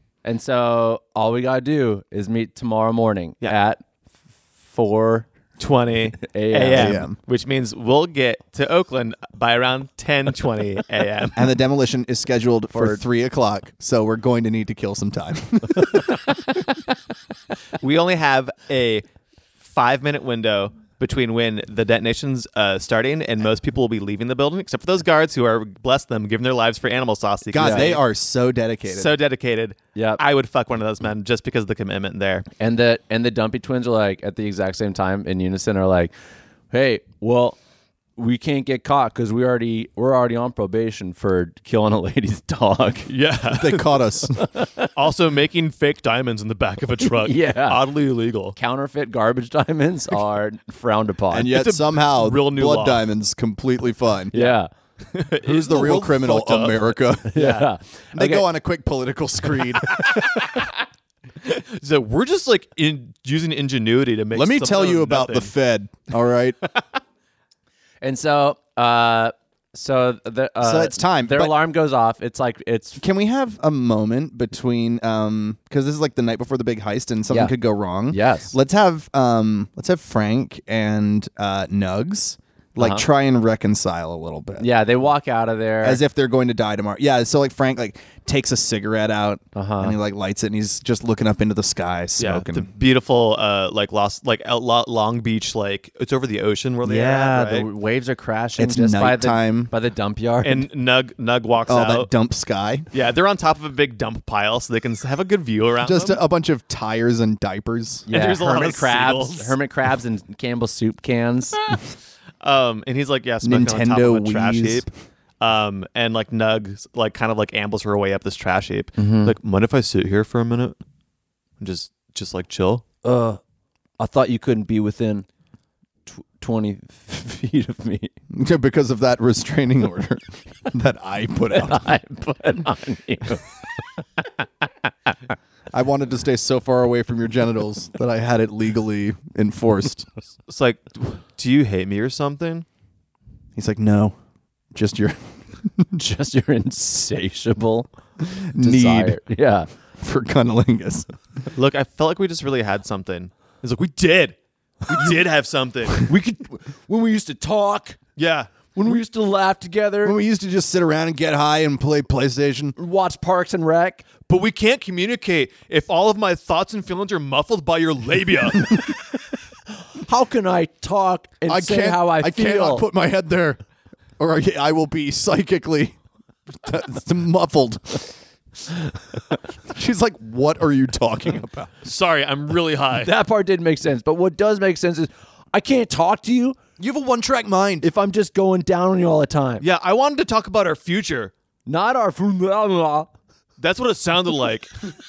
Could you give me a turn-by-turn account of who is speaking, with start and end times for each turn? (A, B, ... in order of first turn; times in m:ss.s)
0:00.2-0:03.8 A
0:04.7-0:05.3 A
0:05.6-0:11.4 B
0:06.2-0:07.0 A
0:06.8-0:07.2 C
0:11.4-0:16.1 C
0:12.7-0:13.0 A
0:17.8-0:19.1 B
0:19.6-0:28.0 B
0:27.5-0:29.1 C
0:27.6-0:27.9 A
0:28.9-0:32.5 B
0:30.0-0:30.2 A
0:32.6-0:36.1 A
0:36.7-0:37.6 A
0:38.2-0:43.1 A
0:43.1-0:44.0 B
0:43.5-0:44.5 C
0:44.4-0:44.9 A
0:45.0-0:48.6 B
0:47.2-0:47.8 A
0:48.6-0:51.6 A
0:51.3-0:54.6 C
0:51.5-0:53.1 B
0:54.3-0:54.7 A
0:55.1-0:57.7 B
0:55.4-0:57.5 C
0:57.3-0:58.5 A
0:58.1-1:00.4 C
0:59.8-1:00.7 B
1:01.4-1:05.5 B
1:04.3-1:06.6 C
1:08.0-1:13.0 A
1:10.6-1:11.6 C
1:13.0-1:24.7 C
1:18.1-1:18.6 A
1:22.8-1:23.0 A
1:24.6-1:26.0 A
1:25.8-1:32.7 C
1:29.6-1:30.0 A
1:32.2-1:37.7 B
1:36.8-1:40.7 A
1:38.6-1:39.7 C
1:40.4-1:42.1 B
1:41.7-1:42.9 C
1:42.9-1:46.2 B
1:45.8-1:48.1 C
1:48.1-1:51.6 A
1:48.1-1:49.6 B
1:52.4-1:54.9 B
1:53.4-1:54.9 C
1:55.4-2:00.8 B
1:59.0-1:59.4 A
2:01.6-2:02.8 B
2:03.0-2:03.4 A
2:04.0-2:05.3 A
2:06.1-2:08.1 A
2:08.3-2:11.9 C
2:11.5-2:13.5 A
2:15.7-2:20.1 C
2:20.5-2:22.7 B
2:23.6-2:24.2 C
2:24.7-2:25.9 C
2:26.0-2:27.9 A
2:28.2-2:29.2 C
2:28.6-2:29.7 A
2:30.0-2:31.1 C
2:31.5-2:36.1 B
2:36.0-2:38.0 A
2:38.2-2:38.5 B
2:38.7-2:40.2 A
2:40.0-2:42.8 C
2:42.8-2:44.1 A
2:44.3-2:48.9 B
2:50.0-2:52.8 A
2:51.5-2:53.6 C
2:54.2-2:56.0 C
2:56.6-2:58.1 C
2:59.7-3:01.7 C
3:01.8-3:03.1 B
3:03.0-3:06.6 A
3:06.8-3:07.9 C
3:07.8-3:09.6 A
3:09.6-3:11.3 B
3:11.7-3:13.1 A
3:13.6-3:14.7 B